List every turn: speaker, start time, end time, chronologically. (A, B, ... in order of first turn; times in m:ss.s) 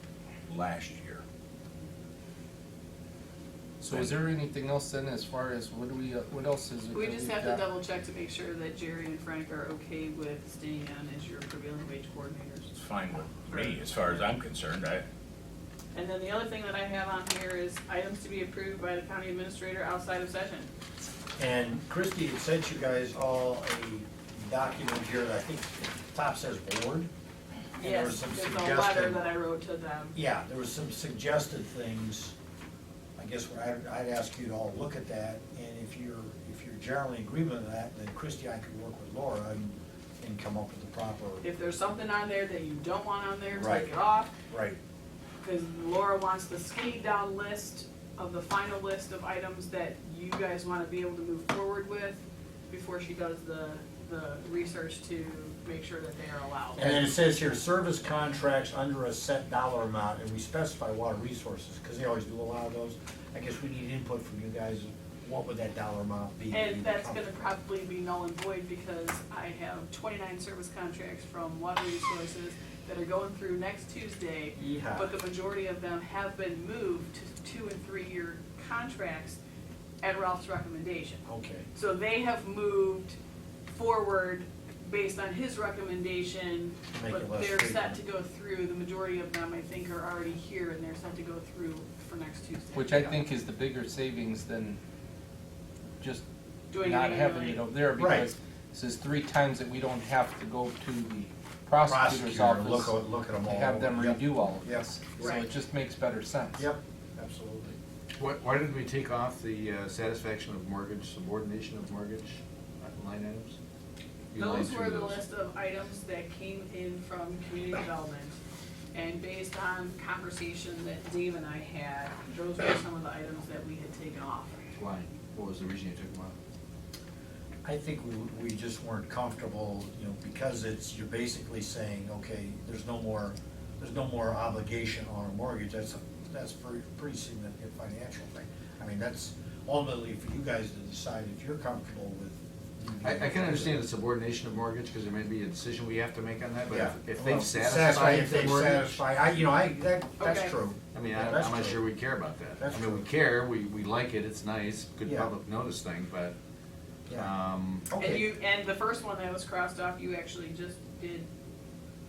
0:00.5-0:01.2 A
0:03.8-0:07.6 B
0:03.9-0:04.1 A
0:06.9-0:12.7 C
0:12.7-0:15.0 A
0:13.4-0:14.2 C
0:15.9-0:20.7 C
0:21.4-0:27.1 D
0:27.8-0:30.1 C
0:27.8-0:29.2 D
0:30.1-0:32.3 D
0:33.2-0:41.4 D
0:41.4-0:44.3 C
0:43.5-0:43.9 D
0:44.5-0:44.8 D
0:45.4-0:56.9 C
0:56.8-1:07.2 D
1:06.5-1:19.4 C
1:14.6-1:15.1 D
1:20.0-1:21.2 C
1:21.2-1:21.7 D
1:21.7-1:23.2 C
1:23.7-1:33.2 C
1:26.9-1:28.0 D
1:32.7-1:34.8 B
1:36.7-1:37.6 C
1:36.8-1:46.7 B
1:38.0-1:38.3 D
1:41.8-1:45.4 D
1:46.6-1:47.8 D
1:48.2-1:53.6 E
1:54.3-1:55.2 E
1:54.4-1:58.4 C
1:58.9-2:04.6 C
2:04.7-2:06.4 E
2:07.6-2:23.8 D
2:23.0-2:29.0 E
2:26.7-2:31.8 D
2:30.2-2:30.6 C
2:30.9-2:36.4 E
2:32.6-2:33.0 D
2:35.0-2:35.3 D
2:37.1-2:37.9 E
2:37.9-2:38.3 D
2:38.0-2:41.3 C